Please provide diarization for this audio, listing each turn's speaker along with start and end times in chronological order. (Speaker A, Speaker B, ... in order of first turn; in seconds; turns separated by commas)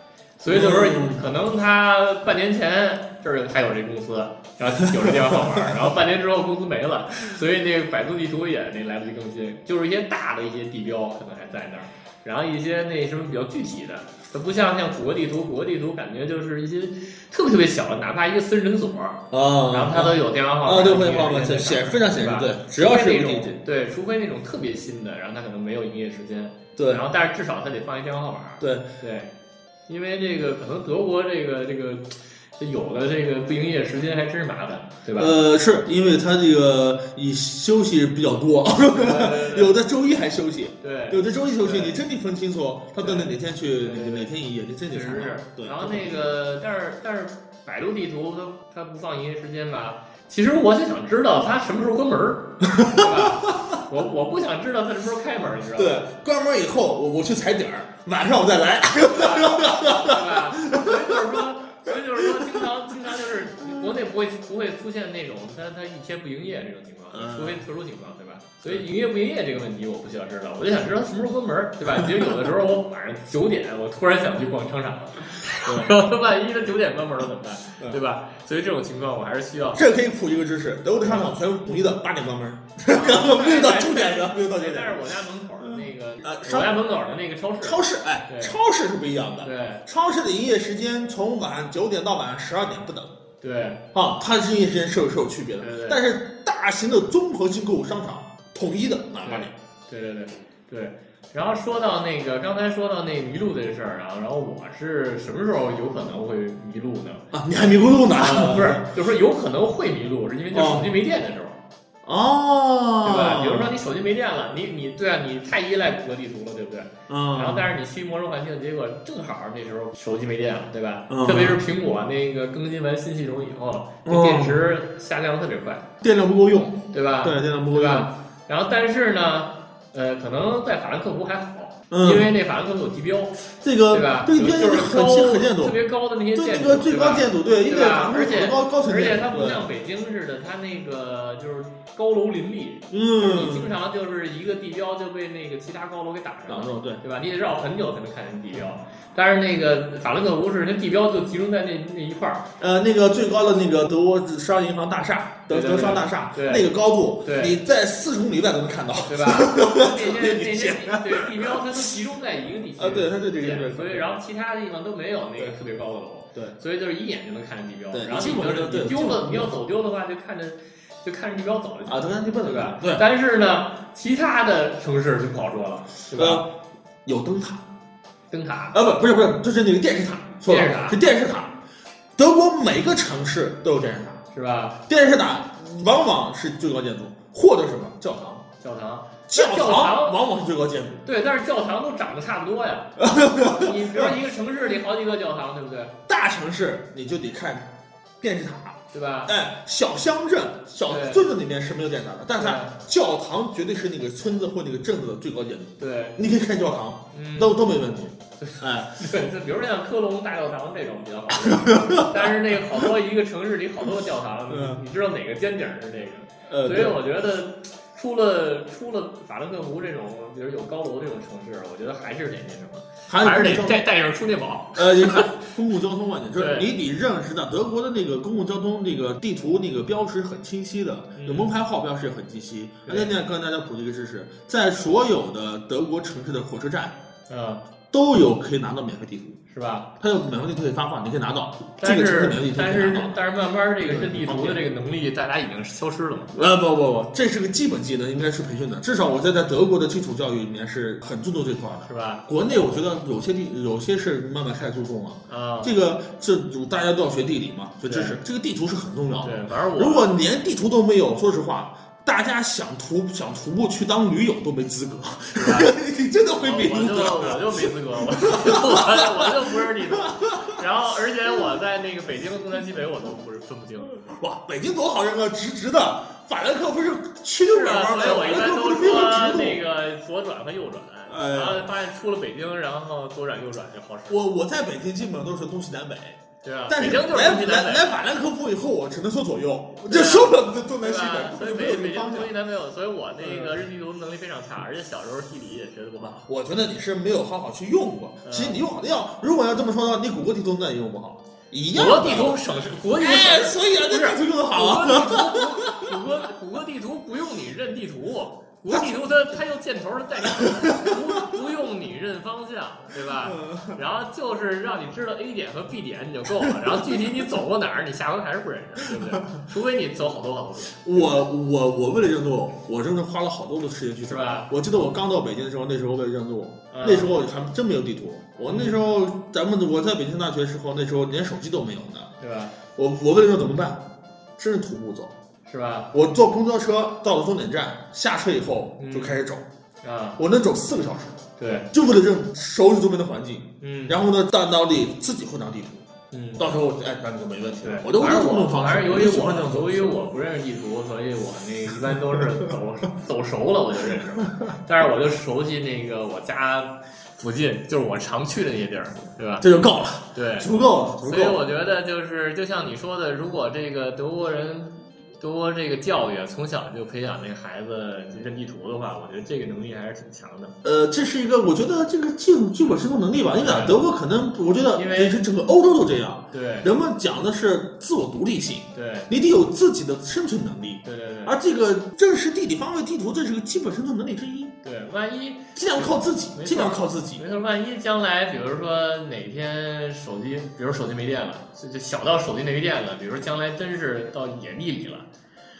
Speaker A: 0.4-29.3, Speaker B: 0.5-1.2, Speaker B: 4.8-5.9, Speaker B: 19.3-23.6, Speaker B: 26.8-27.1, Speaker B: 28.6-28.9, Speaker A: 29.9-35.3, Speaker B: 35.2-46.2, Speaker A: 38.9-39.8, Speaker A: 40.8-42.0, Speaker A: 43.0-44.3, Speaker A: 44.9-56.1, Speaker B: 52.6-53.8, Speaker B: 55.8-62.7, Speaker A: 59.1-79.9, Speaker B: 63.6-63.9, Speaker B: 67.1-67.6, Speaker B: 72.0-72.5, Speaker B: 75.6-76.0, Speaker B: 79.7-85.1, Speaker A: 81.0-81.3, Speaker A: 82.9-88.6, Speaker B: 85.6-86.8, Speaker B: 87.6-93.2, Speaker A: 89.4-89.8, Speaker A: 93.4-93.8, Speaker B: 93.9-99.5, Speaker A: 95.6-96.0, Speaker A: 99.2-107.3, Speaker B: 107.3-108.9, Speaker A: 108.1-111.6, Speaker B: 110.5-110.9, Speaker B: 112.0-113.8, Speaker A: 113.0-125.9, Speaker B: 117.1-117.7, Speaker B: 121.1-121.6, Speaker B: 124.0-124.6, Speaker B: 126.0-128.1, Speaker A: 126.9-152.5, Speaker B: 131.9-132.3, Speaker B: 133.6-135.8, Speaker B: 136.3-139.7, Speaker B: 142.9-143.7, Speaker B: 146.5-147.0, Speaker B: 152.6-161.8, Speaker A: 155.5-157.6, Speaker A: 159.1-176.4, Speaker B: 162.8-164.2, Speaker B: 167.9-169.5, Speaker B: 171.9-173.1, Speaker B: 176.1-176.5, Speaker B: 177.1-177.6, Speaker A: 178.3-178.8, Speaker B: 178.7-181.6, Speaker A: 180.5-181.0, Speaker B: 182.2-184.2, Speaker A: 184.3-184.8, Speaker B: 184.9-188.4, Speaker A: 188.6-190.2, Speaker B: 189.3-191.0, Speaker A: 191.0-195.9, Speaker B: 193.0-194.2, Speaker B: 196.1-197.7, Speaker B: 198.2-209.2, Speaker A: 198.9-199.3, Speaker A: 200.9-201.3, Speaker A: 202.4-202.8, Speaker A: 205.8-206.2, Speaker A: 207.1-207.7, Speaker A: 208.4-225.3, Speaker B: 211.4-212.3, Speaker B: 214.5-214.8, Speaker B: 216.5-217.0, Speaker B: 223.1-223.8, Speaker B: 224.8-236.9, Speaker A: 226.4-226.7, Speaker A: 231.2-231.5, Speaker A: 232.9-233.1, Speaker A: 237.3-237.6, Speaker B: 237.9-239.4, Speaker A: 239.5-239.9, Speaker B: 240.0-243.2, Speaker A: 241.8-246.3, Speaker B: 243.8-244.7, Speaker B: 246.3-270.6, Speaker A: 251.8-252.2, Speaker A: 255.3-255.7, Speaker A: 257.9-258.2, Speaker A: 259.2-260.2, Speaker A: 265.4-265.7, Speaker A: 266.4-274.0, Speaker B: 274.0-279.6, Speaker A: 277.5-284.2, Speaker B: 281.1-281.7, Speaker B: 284.1-292.3, Speaker A: 286.4-287.9, Speaker A: 289.9-296.2, Speaker B: 293.2-293.6, Speaker B: 296.0-302.4, Speaker A: 298.2-298.6, Speaker A: 301.7-321.2, Speaker B: 303.0-306.0, Speaker B: 310.2-311.4, Speaker B: 313.1-313.8, Speaker B: 316.4-317.2, Speaker B: 318.9-319.4, Speaker B: 320.8-332.1, Speaker A: 324.1-324.5, Speaker A: 326.7-327.2, Speaker A: 328.5-328.9, Speaker A: 332.2-332.5, Speaker B: 332.8-333.8, Speaker B: 334.4-335.1, Speaker A: 335.5-335.9, Speaker B: 335.9-339.4, Speaker A: 338.8-339.2, Speaker A: 339.8-340.2, Speaker B: 340.2-341.2, Speaker A: 341.4-341.7, Speaker B: 341.7-345.9, Speaker A: 343.6-344.0, Speaker A: 346.1-346.4, Speaker B: 346.4-350.0, Speaker A: 347.6-359.5, Speaker B: 351.9-352.5, Speaker B: 359.4-361.4, Speaker A: 360.1-360.5, Speaker A: 361.0-370.5, Speaker B: 370.6-384.6, Speaker A: 373.4-373.8, Speaker A: 374.8-375.2, Speaker A: 376.3-376.7, Speaker A: 378.7-379.1, Speaker A: 380.8-381.4, Speaker A: 384.6-395.1, Speaker B: 385.6-387.2